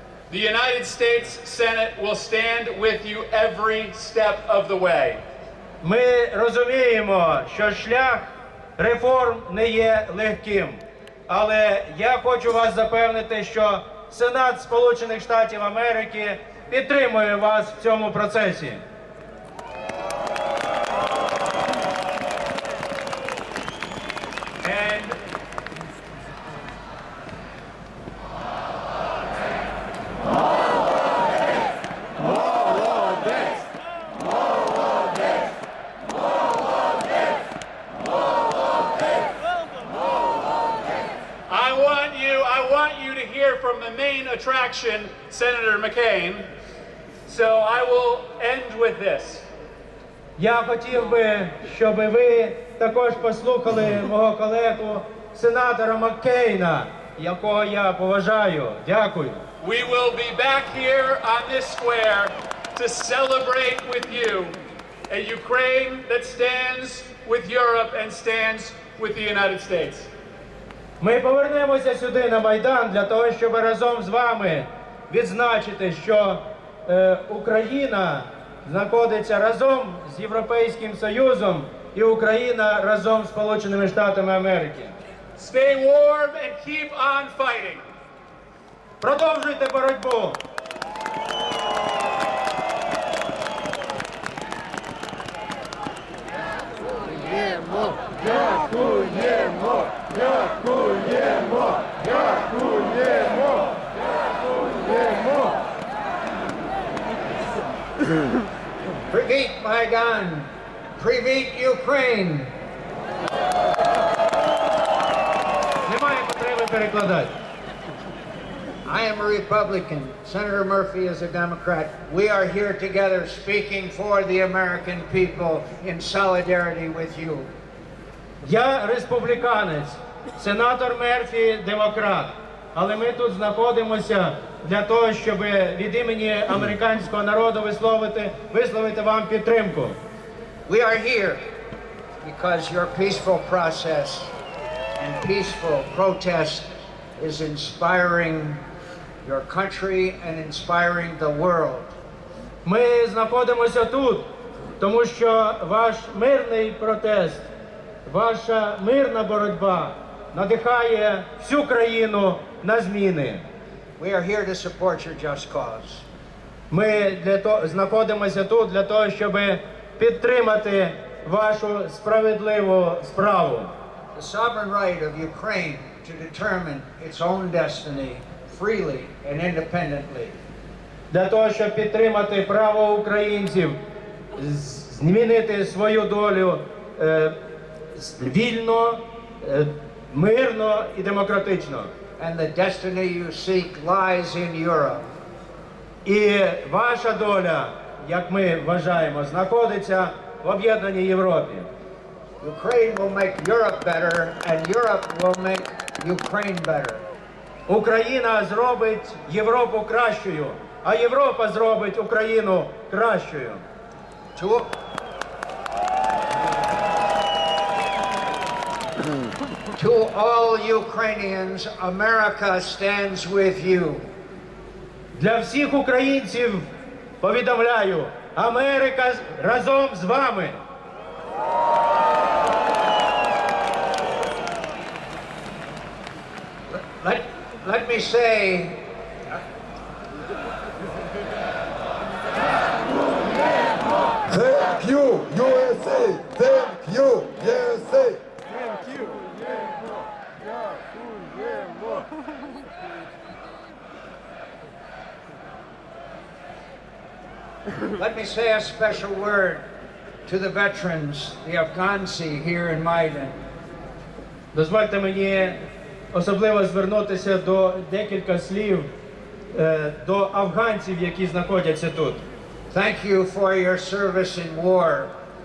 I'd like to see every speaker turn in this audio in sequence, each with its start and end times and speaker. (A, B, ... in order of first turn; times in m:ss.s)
0:00.3-0:05.2 A
0:05.8-0:18.8 B
0:24.6-0:25.2 B
0:41.5-0:46.5 A
0:47.2-0:49.5 A
0:50.4-0:59.4 B
0:59.6-1:04.6 A
1:05.1-1:10.1 A
1:11.0-1:25.0 B
1:25.4-1:27.9 A
1:29.0-1:30.4 B
1:49.1-1:52.5 C
1:55.8-1:57.3 B
1:58.8-2:07.5 C
2:08.4-2:20.0 B
2:20.6-2:21.4 C
2:22.2-2:24.3 C
2:25.0-2:28.6 C
2:29.2-2:31.9 C
2:32.6-2:34.3 B
2:34.8-2:37.5 B
2:38.0-2:43.4 B
2:44.0-2:46.0 C
2:46.7-2:53.7 B
2:54.1-3:00.4 C
3:01.1-3:03.8 B
3:04.4-3:07.4 B
3:07.9-3:11.9 B
3:12.2-3:15.1 C
3:16.0-3:21.7 B
3:22.4-3:27.0 C
3:27.7-3:33.6 B
3:34.3-3:34.7 C
3:39.8-3:44.1 C
3:45.2-3:46.7 B
3:47.2-3:50.6 B
3:56.7-3:58.8 C
4:04.3-4:08.2 D
4:18.0-4:19.6 C
4:20.3-4:23.4 C
4:24.5-4:25.6 B
4:26.1-4:28.9 B
4:29.5-4:32.2 B
4:32.7-4:35.1 C